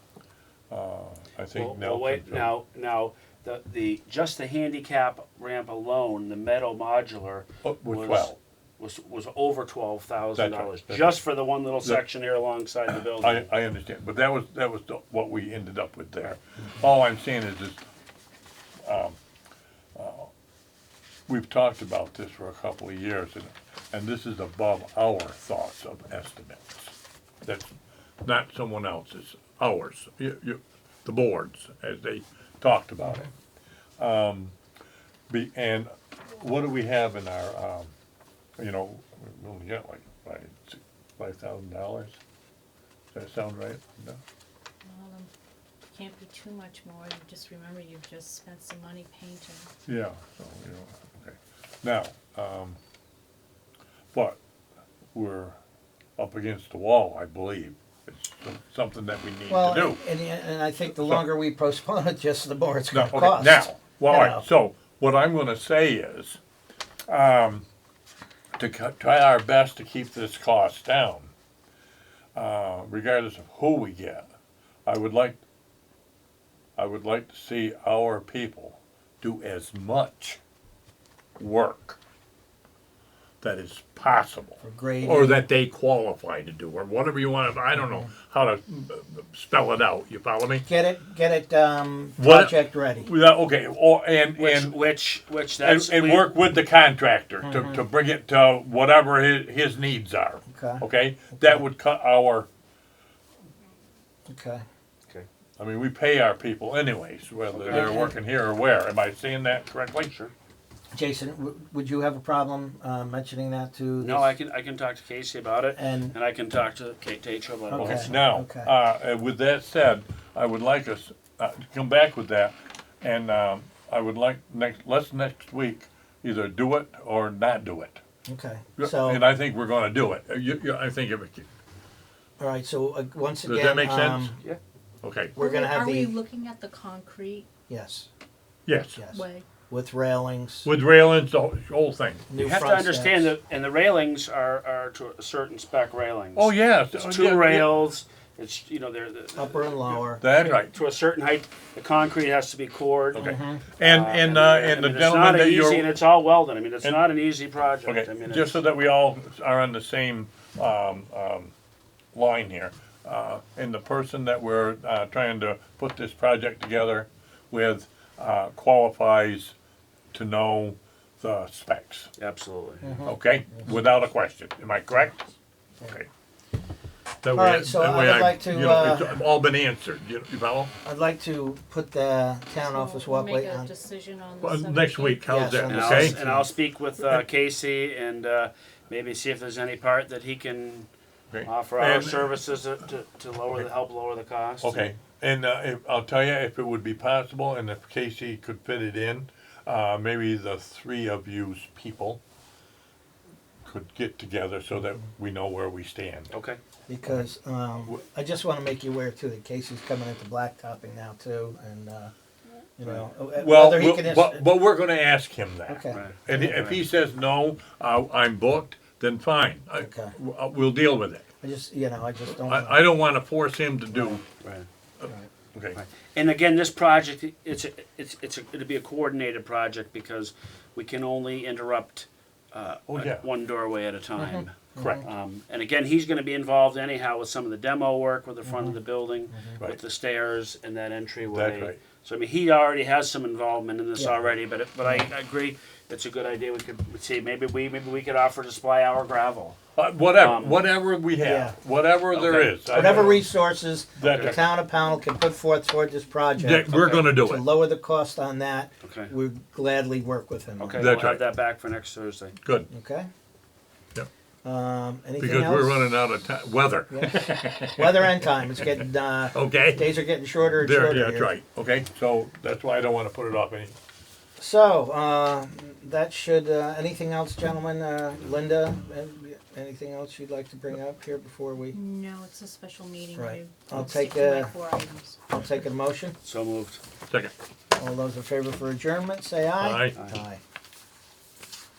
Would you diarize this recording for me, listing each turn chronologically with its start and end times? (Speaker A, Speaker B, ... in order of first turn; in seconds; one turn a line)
Speaker A: 0.7-2.5
Speaker B: 1.5-13.5
Speaker A: 7.6-8.4
Speaker A: 10.4-11.2
Speaker A: 12.9-17.8
Speaker A: 18.8-19.2
Speaker A: 19.9-20.3
Speaker A: 21.3-33.3
Speaker A: 34.0-34.5
Speaker A: 35.3-37.9
Speaker A: 38.6-42.2
Speaker A: 43.1-44.2
Speaker C: 44.9-45.3
Speaker C: 45.9-49.7
Speaker A: 49.9-52.8
Speaker A: 54.1-54.4
Speaker A: 55.1-55.6
Speaker A: 56.2-60.0
Speaker D: 59.5-64.5
Speaker A: 60.9-61.2
Speaker A: 62.9-66.4
Speaker A: 67.1-67.7
Speaker A: 68.6-71.3
Speaker A: 72.3-74.3
Speaker A: 74.9-75.4
Speaker A: 76.8-80.4
Speaker A: 81.4-82.0
Speaker A: 83.4-90.7
Speaker D: 84.6-85.4
Speaker D: 87.8-88.0
Speaker D: 90.6-93.1
Speaker A: 92.2-94.8
Speaker B: 94.4-96.3
Speaker A: 95.6-102.5
Speaker D: 97.4-97.8
Speaker D: 100.5-100.8
Speaker D: 101.4-101.7
Speaker D: 104.3-104.6
Speaker A: 105.6-110.1
Speaker B: 107.5-108.1
Speaker D: 107.7-108.1
Speaker B: 110.0-110.3
Speaker D: 110.9-114.3
Speaker B: 114.0-118.2
Speaker D: 115.8-116.2
Speaker D: 117.7-118.7
Speaker A: 117.8-128.0
Speaker D: 128.3-129.2
Speaker A: 128.8-131.5
Speaker D: 132.4-134.3
Speaker A: 133.4-134.3
Speaker A: 135.0-135.4
Speaker D: 135.4-136.1
Speaker C: 135.4-137.5
Speaker D: 137.7-138.1
Speaker A: 138.7-139.0
Speaker D: 139.0-140.7
Speaker C: 139.1-139.4
Speaker A: 140.6-142.4
Speaker D: 142.3-143.3
Speaker B: 142.4-158.6
Speaker A: 146.4-147.8
Speaker D: 149.4-150.2
Speaker A: 150.2-150.7
Speaker A: 153.1-155.9
Speaker D: 153.2-153.7
Speaker A: 157.8-161.5
Speaker A: 162.1-169.6
Speaker A: 170.1-172.1
Speaker B: 172.2-172.9
Speaker D: 172.8-173.7
Speaker A: 173.1-175.3
Speaker A: 177.2-180.7
Speaker D: 177.3-179.1
Speaker D: 180.8-183.7
Speaker C: 182.6-185.4
Speaker A: 184.4-186.2
Speaker D: 185.3-186.5
Speaker B: 185.7-190.9
Speaker A: 191.3-192.3
Speaker B: 191.4-194.8
Speaker A: 194.6-202.2
Speaker A: 203.7-206.3
Speaker B: 206.3-206.6
Speaker D: 206.9-212.1
Speaker D: 212.8-214.5
Speaker A: 213.3-221.2
Speaker D: 215.7-216.6
Speaker B: 215.9-216.8
Speaker D: 219.8-220.1
Speaker D: 221.4-222.8
Speaker A: 222.3-224.2
Speaker D: 223.9-224.2
Speaker B: 224.3-224.7
Speaker A: 225.0-225.8
Speaker B: 225.8-249.6
Speaker A: 232.9-233.3
Speaker D: 234.2-235.0
Speaker A: 234.8-235.0
Speaker D: 238.4-238.8
Speaker D: 239.3-239.6
Speaker A: 241.3-241.8
Speaker D: 244.0-244.3
Speaker D: 244.8-245.1
Speaker A: 249.8-253.3
Speaker B: 250.2-250.6
Speaker D: 251.2-251.6
Speaker B: 252.1-253.1
Speaker D: 252.7-260.9
Speaker A: 254.0-254.4
Speaker B: 254.0-254.4
Speaker A: 256.4-257.5
Speaker B: 256.7-257.0
Speaker B: 258.8-259.1
Speaker B: 260.6-262.4
Speaker A: 260.8-261.2
Speaker A: 262.4-262.7
Speaker D: 262.7-263.1
Speaker D: 264.4-265.8
Speaker A: 265.2-269.9
Speaker D: 266.9-271.3
Speaker A: 270.5-273.8
Speaker D: 274.4-281.8
Speaker C: 281.7-285.2
Speaker D: 283.2-284.6
Speaker D: 285.3-286.1
Speaker B: 286.2-286.8
Speaker A: 287.1-287.3
Speaker D: 287.8-290.4
Speaker A: 289.6-290.0